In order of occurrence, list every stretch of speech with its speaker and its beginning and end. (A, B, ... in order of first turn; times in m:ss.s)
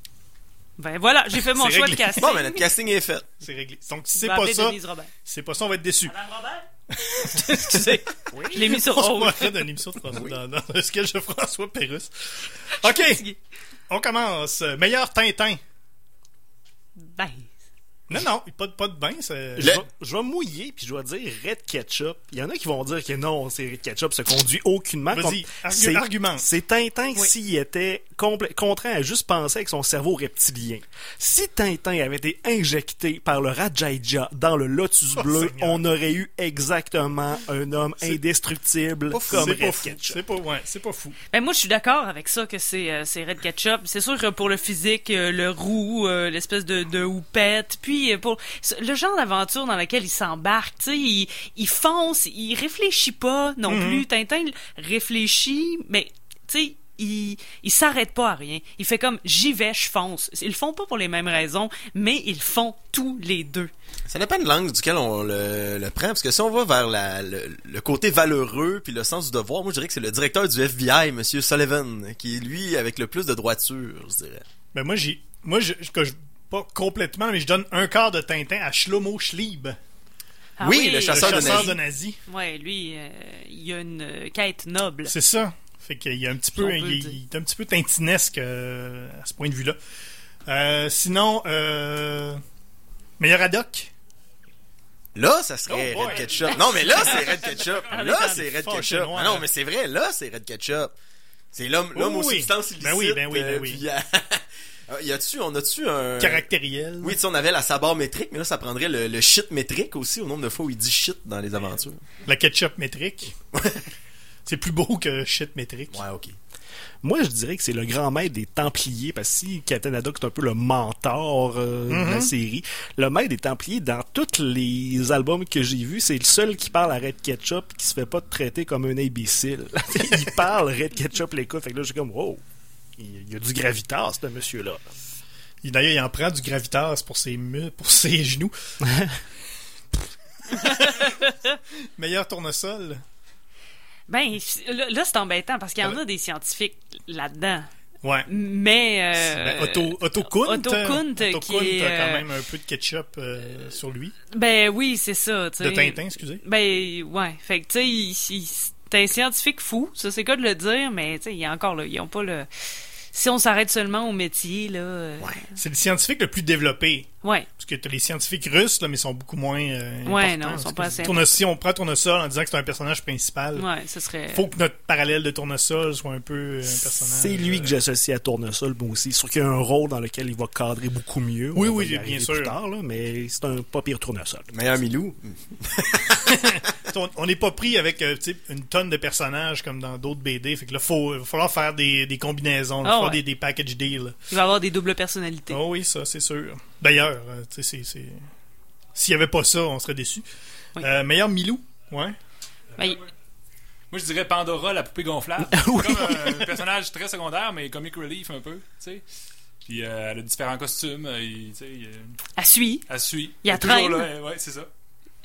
0:00.8-0:02.7 A
0:01.5-0:02.2 B
0:02.2-0:03.3 C
0:03.4-0:06.1 B
0:04.2-0:05.1 A
0:06.1-0:09.6 A
0:06.9-0:13.2 B
0:08.3-0:08.6 D
0:10.1-0:10.4 C
0:12.8-0:13.4 A
0:13.9-0:15.6 B
0:17.0-0:17.5 A
0:18.1-0:19.8 B
0:19.6-0:40.2 D
0:25.1-0:26.5 B
0:35.2-0:35.8 B
0:39.1-0:39.6 C
0:39.3-0:41.2 B
0:41.3-1:03.7 A
0:53.7-0:54.0 B
1:04.1-1:14.4 C
1:14.7-1:19.8 B
1:20.6-1:25.1 A
1:20.6-1:21.7 C
1:21.1-1:22.2 B
1:25.1-1:29.8 B
1:26.6-1:27.2 A
1:30.5-1:32.4 B
1:33.2-1:33.9 B
1:35.1-1:40.9 C
1:35.7-1:37.3 B
1:36.1-1:38.5 A
1:38.5-1:39.5 B
1:41.5-1:46.5 C
1:42.0-1:43.8 B
1:46.2-1:47.2 B
1:47.0-1:52.0 C
1:52.2-1:53.4 B
1:53.5-1:53.9 C
1:54.5-1:56.0 B
1:55.9-1:56.4 C
1:57.0-2:12.4 D
2:01.9-2:02.3 B
2:13.0-2:14.8 D
2:15.6-2:18.5 B
2:18.8-2:19.2 D
2:20.5-2:21.3 B
2:20.6-2:21.3 A
2:22.0-2:23.0 B
2:24.1-2:27.7 A
2:28.0-2:28.3 B
2:28.3-2:32.3 A
2:29.2-2:34.2 B
2:34.3-2:42.5 A
2:35.6-2:36.4 B
2:43.1-2:45.4 A
2:45.6-2:53.7 B
2:47.2-2:47.5 A
2:50.0-2:51.3 A
2:53.6-2:54.5 A
2:54.3-2:57.8 B
2:57.0-3:04.5 D
3:01.5-3:02.6 B
3:04.5-3:06.5 C
3:06.2-3:14.2 B
3:12.8-3:13.2 A
3:14.3-3:15.6 A
3:15.5-3:18.2 B
3:19.0-3:20.2 B
3:20.8-3:22.2 B
3:22.8-3:23.0 A
3:22.8-3:23.0 E
3:23.9-3:29.0 E
3:25.5-3:26.5 D
3:29.7-3:32.2 E
3:32.4-3:32.9 A
3:32.9-3:34.7 E
3:33.4-3:34.1 A